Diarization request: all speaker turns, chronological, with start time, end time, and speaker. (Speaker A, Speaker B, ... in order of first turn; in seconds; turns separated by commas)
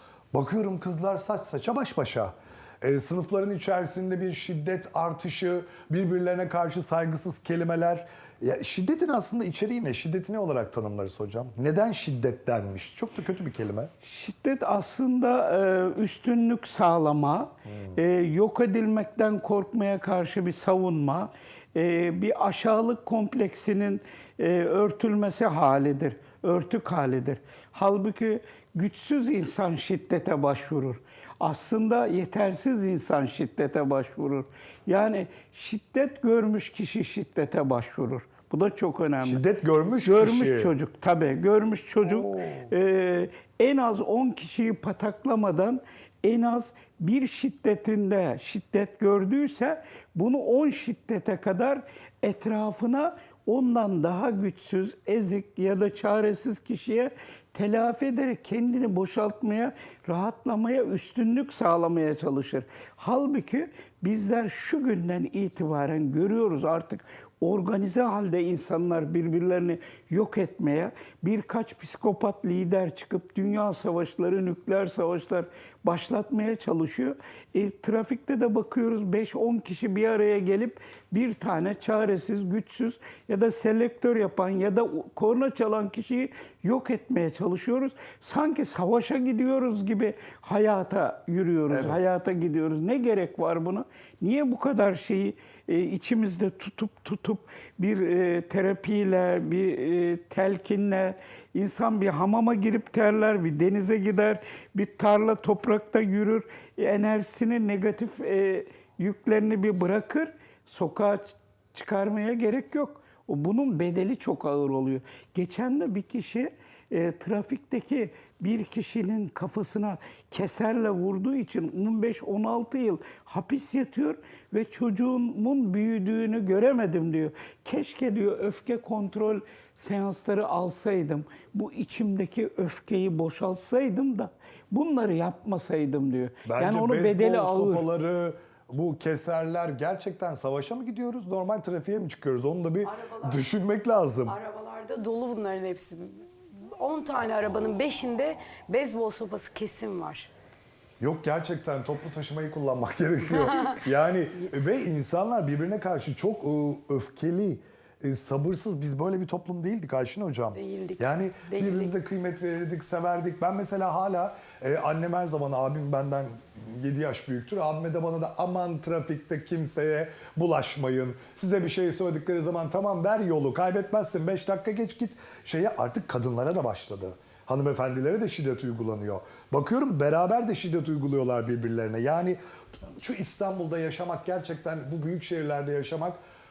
Speaker A: 0.3-13.9, Speaker B: 14.0-39.4, Speaker A: 39.2-40.7, Speaker B: 40.0-137.9, Speaker A: 42.0-42.7, Speaker A: 91.7-92.1, Speaker A: 136.5-144.4, Speaker C: 142.8-143.3, Speaker C: 144.3-150.3, Speaker A: 151.0-186.2, Speaker C: 160.6-161.9